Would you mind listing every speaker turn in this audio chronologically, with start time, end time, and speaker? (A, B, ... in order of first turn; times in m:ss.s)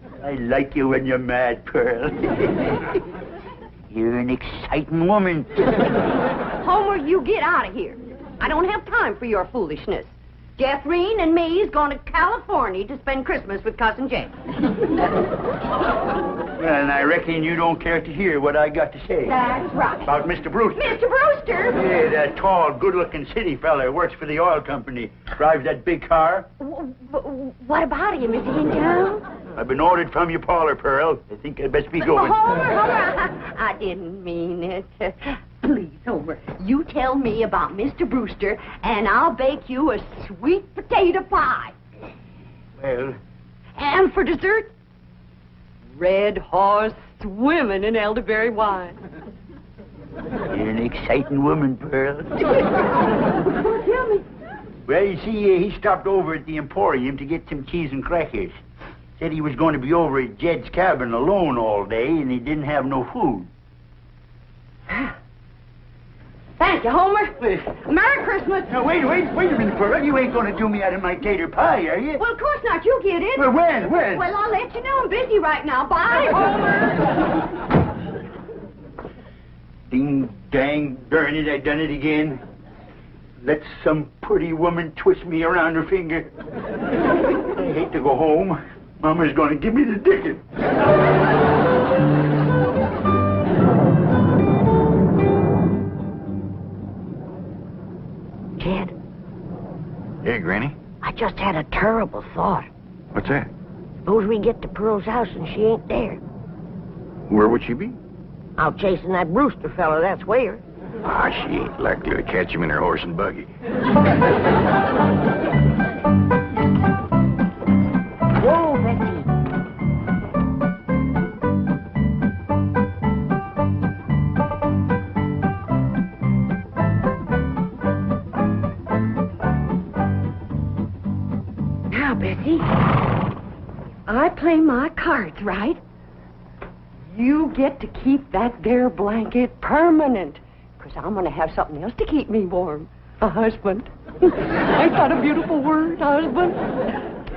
0:00.2-0:02.8 A
0:03.9-0:05.6 A
0:06.6-0:14.3 B
0:16.6-0:19.4 A
0:19.2-0:20.2 B
0:20.0-0:21.0 A
0:20.8-0:21.8 B
0:21.7-0:26.5 A
0:26.6-0:29.2 B
0:29.5-0:32.5 A
0:32.0-0:41.7 B
0:42.8-0:43.2 A
0:43.8-0:44.7 B
0:46.0-0:49.0 B
0:50.5-0:52.3 A
0:53.5-0:54.2 B
0:54.9-0:58.6 A
0:59.2-1:03.5 A
1:06.6-1:08.7 B
1:07.4-1:07.7 A
1:08.7-1:12.2 A
1:12.2-1:17.0 B
1:13.4-1:14.3 A
1:19.9-1:22.4 A
1:23.4-1:26.3 A
1:27.4-1:30.4 A
1:38.6-1:38.9 C
1:40.2-1:40.8 D
1:41.0-1:42.7 C
1:43.1-1:43.5 D
1:44.0-1:46.2 C
1:47.3-1:48.0 D
1:48.6-1:50.6 C
1:51.0-1:53.5 D
1:58.3-1:59.3 C
2:11.9-2:12.7 B
2:14.1-2:15.8 B
2:17.1-2:26.6 B